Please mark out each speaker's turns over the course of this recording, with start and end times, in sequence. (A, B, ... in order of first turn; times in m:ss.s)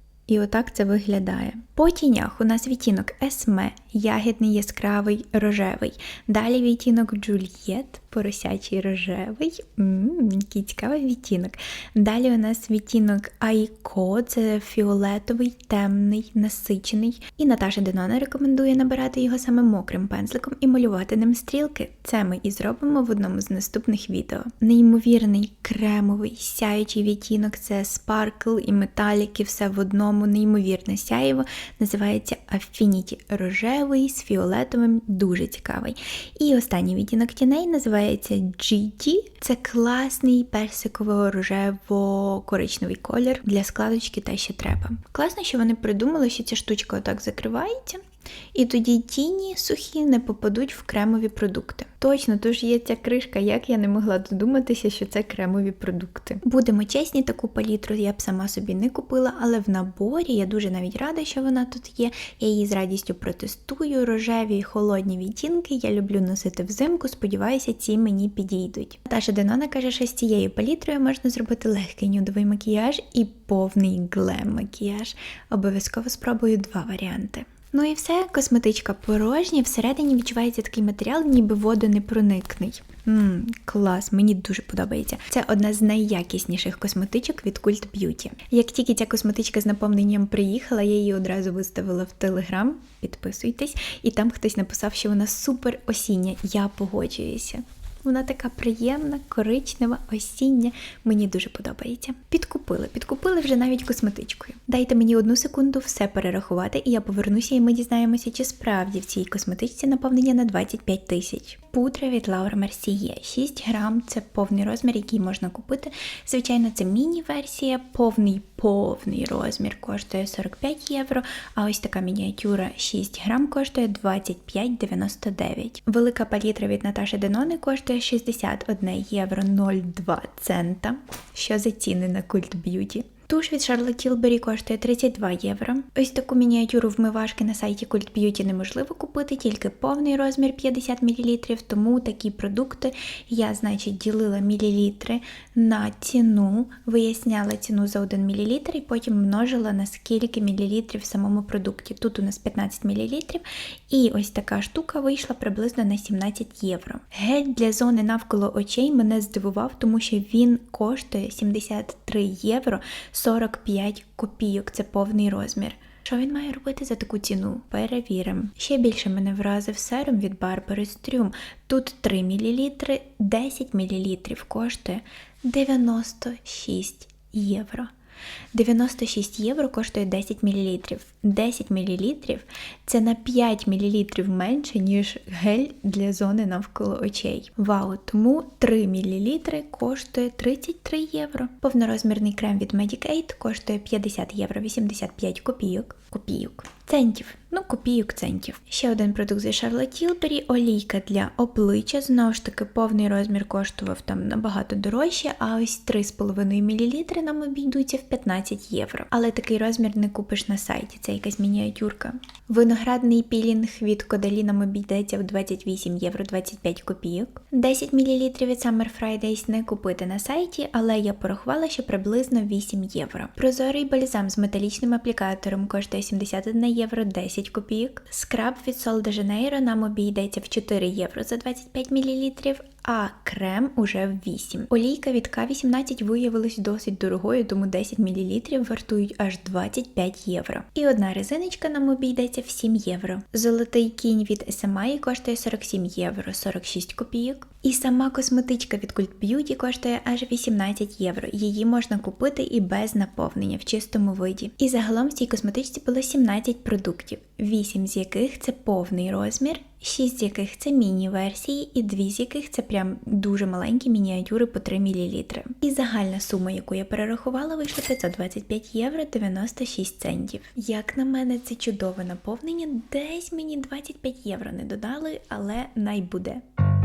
0:00.3-0:48.0 A
0:48.5-2:57.9 A
2:58.5-4:36.4 A